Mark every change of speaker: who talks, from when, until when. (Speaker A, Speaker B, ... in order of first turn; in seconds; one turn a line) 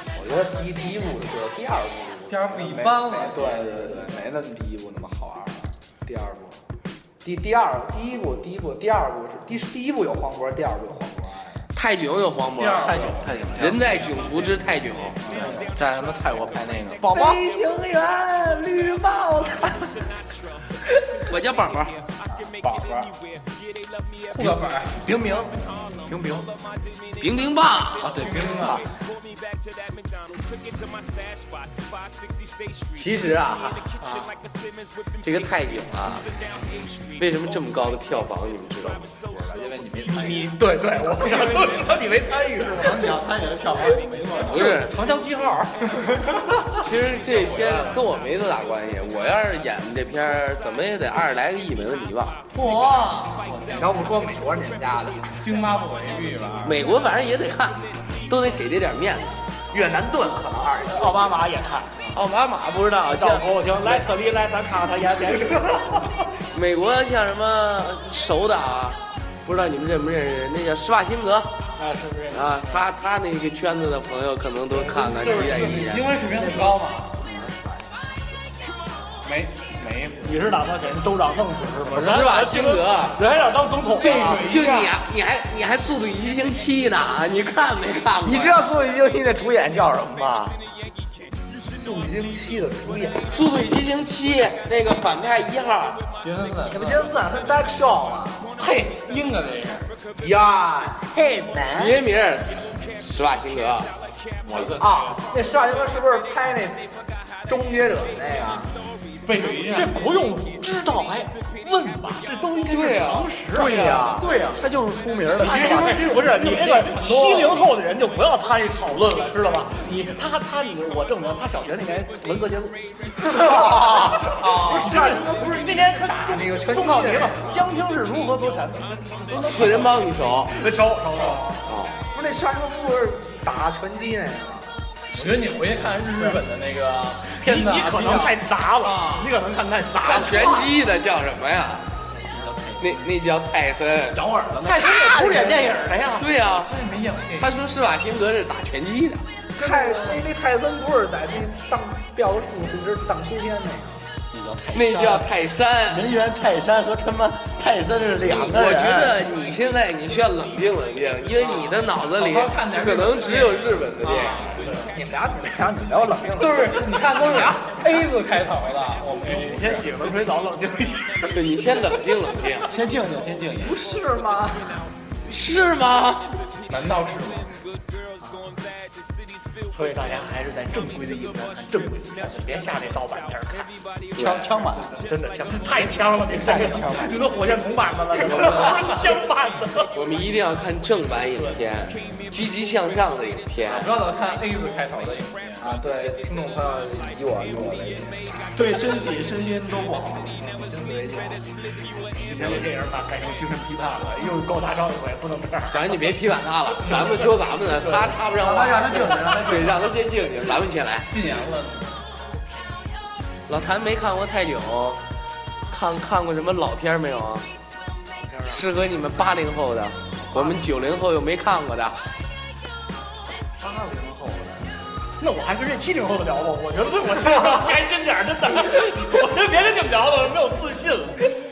Speaker A: 0.1-6.6
Speaker B: 2.3-4.2
Speaker A: 7.2-11.7
Speaker C: 11.7-15.2
Speaker B: 12.6-14.5
Speaker D: 12.7-13.8
Speaker B: 15.2-15.7
Speaker D: 15.2-17.4
Speaker A: 17.0-19.9
Speaker C: 21.3-22.0
Speaker B: 22.6-23.1
Speaker B: 24.3-25.4
Speaker D: 24.4-25.5
Speaker E: 25.1-25.5
Speaker B: 26.1-26.5
Speaker C: 27.2-28.1
Speaker D: 28.0-28.9
Speaker B: 28.1-28.9
Speaker C: 33.0-33.9
Speaker B: 34.0-34.3
Speaker C: 35.2-36.3
Speaker C: 37.2-39.1
Speaker A: 39.2-40.6
Speaker E: 40.0-43.2
Speaker B: 41.1-42.2
Speaker D: 42.8-44.7
Speaker B: 43.6-44.8
Speaker C: 44.4-45.0
Speaker E: 44.4-46.3
Speaker C: 46.8-52.4
Speaker B: 52.5-54.2
Speaker A: 53.7-55.6
Speaker B: 55.4-56.8
Speaker C: 56.6-59.4
Speaker A: 59.7-61.3
Speaker E: 60.9-62.0
Speaker C: 62.1-64.1
Speaker E: 63.1-66.1
Speaker C: 66.5-71.6
Speaker E: 71.8-72.5
Speaker B: 72.0-72.4
Speaker C: 72.3-76.1
Speaker B: 74.8-77.2
Speaker A: 76.2-78.4
Speaker B: 79.2-80.5
Speaker E: 80.2-84.9
Speaker C: 81.9-83.2
Speaker B: 83.9-84.9
Speaker C: 84.0-88.7
Speaker D: 88.2-90.6
Speaker A: 91.7-93.3
Speaker C: 93.3-96.0
Speaker B: 96.2-97.2
Speaker A: 96.7-98.4
Speaker B: 98.5-99.9
Speaker A: 100.2-102.0
Speaker C: 101.7-103.9
Speaker B: 104.4-105.3
Speaker A: 104.8-106.9
Speaker A: 107.5-108.7
Speaker B: 109.2-110.0
Speaker E: 109.6-114.6
Speaker C: 112.7-114.2
Speaker D: 113.5-116.2
Speaker A: 113.7-114.2
Speaker E: 115.3-131.6
Speaker B: 115.4-117.6
Speaker A: 115.5-117.1
Speaker A: 123.4-127.7
Speaker B: 123.5-125.2
Speaker C: 129.4-130.5
Speaker B: 131.0-131.5
Speaker C: 131.6-132.0
Speaker A: 132.1-134.8
Speaker B: 135.1-139.4
Speaker E: 137.3-140.7
Speaker C: 140.0-141.9
Speaker B: 142.3-142.8
Speaker C: 142.8-144.3
Speaker D: 144.1-145.9
Speaker E: 144.6-146.3
Speaker B: 144.9-145.9
Speaker C: 146.1-146.8
Speaker B: 146.7-147.5
Speaker C: 147.4-149.2
Speaker A: 149.6-154.0
Speaker B: 149.6-150.2
Speaker D: 154.3-155.3
Speaker C: 154.7-156.1
Speaker D: 155.9-159.2
Speaker C: 158.2-164.5
Speaker B: 161.5-165.0
Speaker A: 164.9-167.8
Speaker B: 166.4-169.9
Speaker E: 169.2-171.8
Speaker C: 171.3-172.7
Speaker D: 172.7-173.9
Speaker A: 173.6-174.8
Speaker C: 175.3-176.3
Speaker B: 176.7-177.5
Speaker A: 178.2-178.5
Speaker E: 179.7-183.7
Speaker C: 184.1-184.5
Speaker D: 184.1-185.1
Speaker E: 185.0-189.9
Speaker D: 185.8-187.6
Speaker C: 188.2-189.0
Speaker C: 189.9-193.9
Speaker B: 193.6-195.8
Speaker A: 195.6-198.6
Speaker D: 198.6-200.4
Speaker A: 200.4-201.5
Speaker E: 202.2-206.1
Speaker C: 205.7-211.1
Speaker D: 208.2-209.9
Speaker B: 211.1-212.0
Speaker C: 213.5-215.0
Speaker C: 215.7-217.5
Speaker E: 218.2-218.6
Speaker C: 218.5-222.0
Speaker A: 223.6-224.6
Speaker E: 225.2-231.3